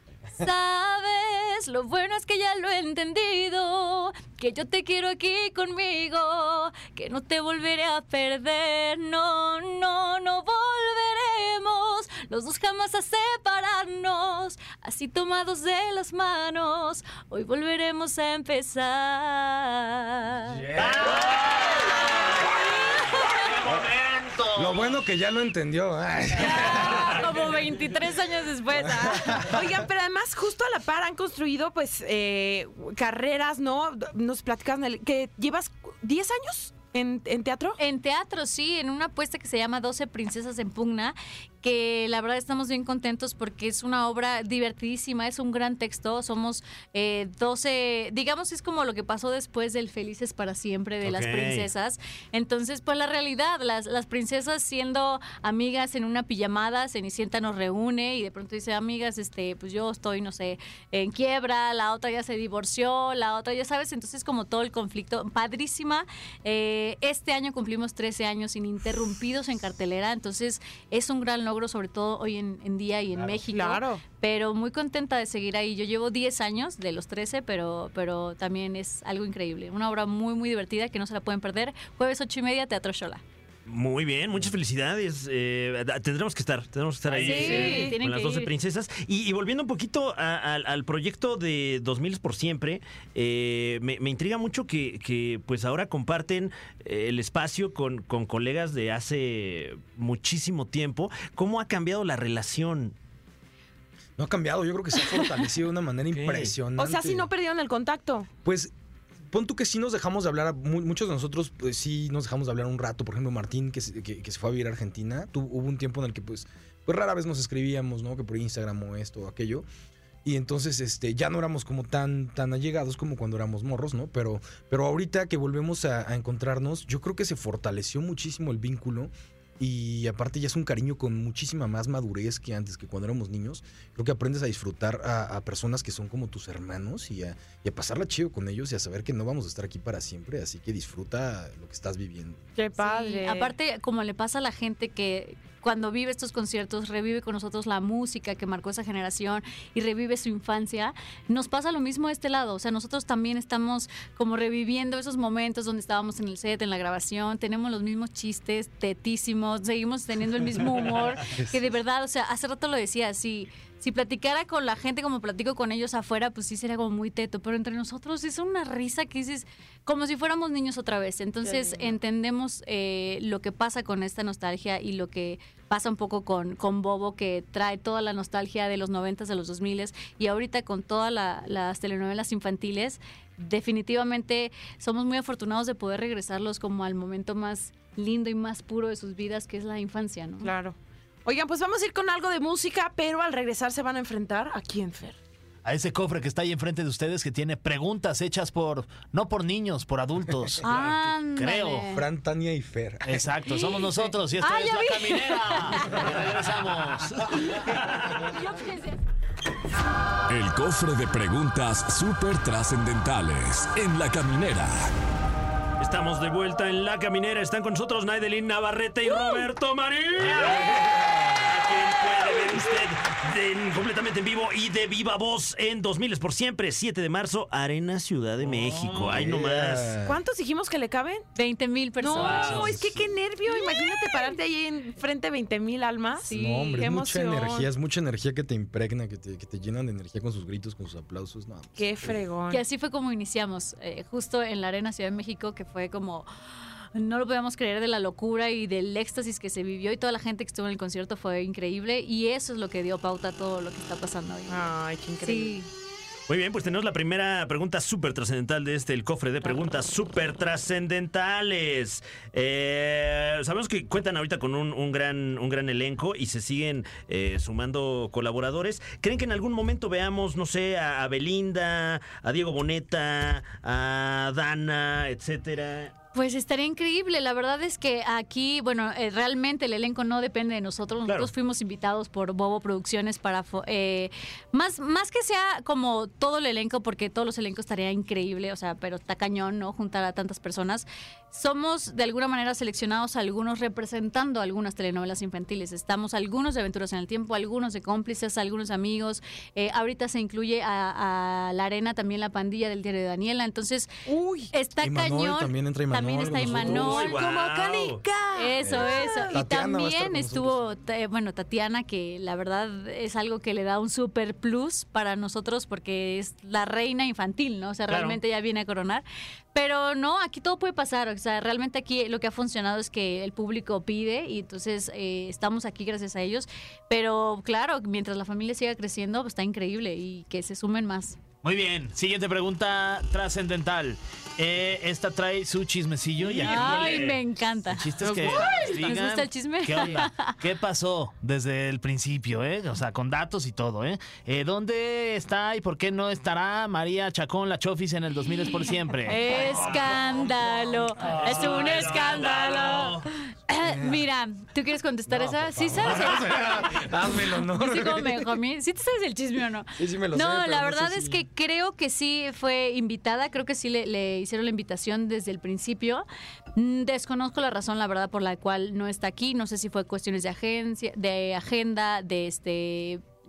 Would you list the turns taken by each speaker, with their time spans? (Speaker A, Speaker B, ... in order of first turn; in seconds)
Speaker A: 0.4-20.6, 22.6-23.5, 26.4-29.5, 37.8-83.2, 87.2-88.5, 142.8-190.5, 200.6-202.0, 203.5-206.1, 208.3-209.0, 231.3-232.6, 236.2-236.9, 242.5-255.7, 276.1-303.9, 304.5-307.2, 308.3-331.2, 336.4-340.4, 349.1-356.9, 357.4-373.1
Speaker B: 20.7-21.2, 24.5-27.4, 28.8-29.6, 104.2-107.3, 108.5-108.7, 109.3-119.7, 120.2-142.4, 161.3-161.7, 201.9-203.3, 220.2-221.4, 229.0-230.2, 232.6-232.9, 236.3-242.2, 304.8-307.0, 308.6-310.6, 353.6-354.0, 355.1-358.4, 359.8-361.2
Speaker C: 20.8-22.4, 23.1-24.9, 87.1-87.5, 195.7-201.9, 203.0-207.3, 228.5-229.2, 331.4-350.0, 351.0-353.1
Speaker D: 29.4-37.8, 73.5-74.0, 87.2-88.0, 106.8-108.3, 142.6-143.5, 171.4-172.0, 190.4-195.2, 230.0-231.3, 232.0-237.7, 241.8-242.6, 254.5-255.6, 304.1-304.5, 306.7-309.4, 338.0-338.9
Speaker E: 51.0-51.7, 83.7-103.0, 106.1-106.5, 207.8-208.1, 215.8-230.0, 232.2-232.8, 256.3-275.9, 281.1-281.3, 306.5-308.0, 317.9-318.2, 336.2-337.1, 351.2-352.6
Speaker F: 210.3-214.9